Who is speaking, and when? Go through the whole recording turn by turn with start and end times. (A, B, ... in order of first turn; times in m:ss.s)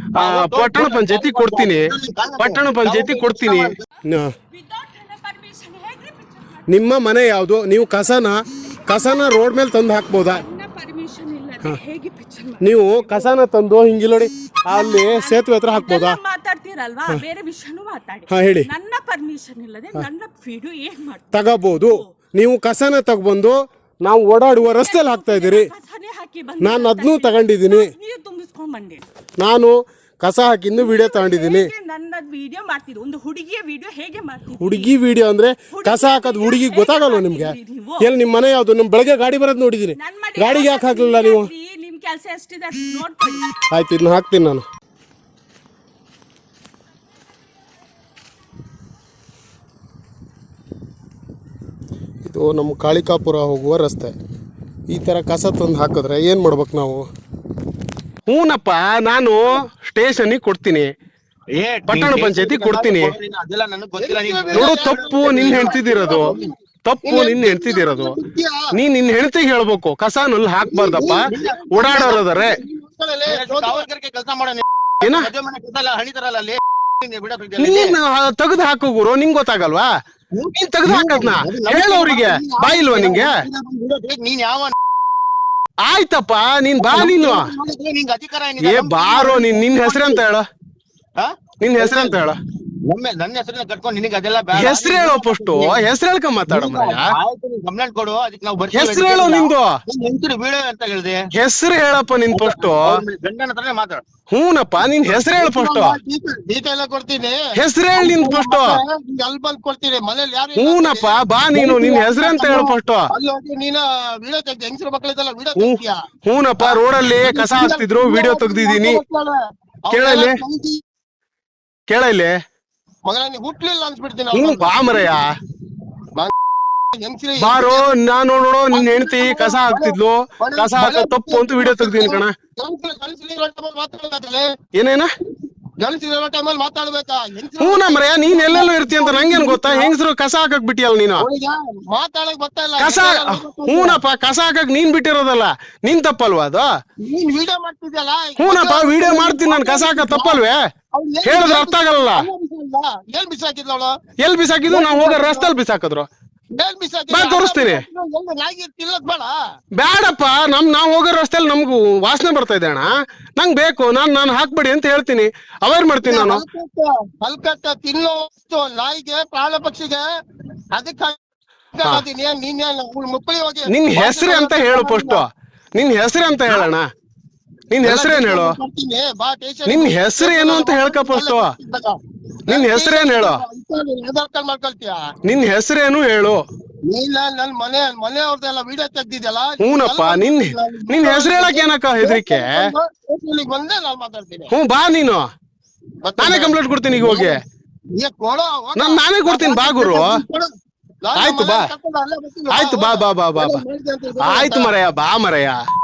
0:00.1-0:03.8 A
0:00.2-0:04.3 B
0:04.5-0:06.7 C
0:06.7-0:10.4 B
0:10.3-0:13.3 C
0:12.6-0:16.2 B
0:14.7-0:22.1 C
0:18.3-0:18.7 B
0:21.3-0:25.7 B
0:24.6-0:29.0 C
0:26.6-0:27.9 B
0:29.4-0:31.7 B
0:30.8-0:34.9 C
0:34.6-0:41.5 B
0:35.7-0:38.1 C
0:40.0-0:43.6 C
0:43.7-0:44.6 B
0:52.2-0:54.2 B
0:54.9-0:57.0 B
0:58.3-1:00.9 B
1:01.5-1:06.4 A
1:01.9-1:03.2 B
1:04.0-1:06.5 D
1:04.5-1:06.3 B
1:06.8-1:08.2 B
1:07.0-1:08.6 D
1:08.7-1:12.6 B
1:10.7-1:13.9 D
1:11.0-1:12.0 A
1:13.3-1:18.0 A
1:15.0-1:15.3 B
1:17.6-1:19.9 B
1:20.3-1:24.8 A
1:20.6-1:23.4 B
1:25.8-1:27.5 B
1:26.8-1:30.2 A
1:28.6-1:30.4 B
1:31.2-1:32.2 A
1:31.6-1:32.4 B
1:32.8-1:35.9 A
1:34.5-1:37.1 B
1:36.5-1:41.3 A
1:38.7-1:39.7 B
1:41.3-1:42.9 B
1:42.3-1:44.0 A
1:44.3-1:46.0 B
1:44.8-1:47.4 D
1:47.6-1:48.8 B
1:48.0-1:56.0 D
1:50.6-1:53.1 B
1:55.6-1:59.0 B
1:56.6-2:00.8 D
1:59.9-2:00.4 B
2:01.9-2:02.4 B
2:03.0-2:05.2 D
2:04.3-2:05.3 B
2:07.0-2:07.9 D
2:07.4-2:12.3 B
2:08.7-2:14.5 D
2:14.8-2:15.1 B
2:15.8-2:19.9 D
2:17.6-2:21.3 B
2:21.2-2:24.0 D
2:22.8-2:26.7 B
2:27.0-2:30.4 D
2:28.4-2:30.6 B
2:30.9-2:33.9 D
2:31.2-2:32.3 B
2:34.2-2:36.1 B
2:34.7-2:35.5 D
2:36.5-2:39.3 D
2:37.1-2:37.8 B
2:39.8-2:46.4 B
2:46.1-2:50.0 D
2:50.7-2:51.2 D
2:51.7-2:55.2 D
2:53.7-2:56.8 B
2:57.7-2:58.6 B
2:57.8-3:02.0 D
2:59.7-3:01.5 B
3:02.5-3:03.4 B
3:02.5-3:05.0 D
3:05.2-3:06.4 B
3:06.9-3:14.5 D
3:09.6-3:12.7 B
3:14.5-3:15.3 B
3:16.0-3:17.4 D
3:16.2-3:17.4 B
3:18.0-3:20.5 D
3:18.8-3:20.2 B
3:21.0-3:24.7 D
3:21.2-3:21.7 B
3:22.5-3:23.6 B
3:24.2-3:25.6 B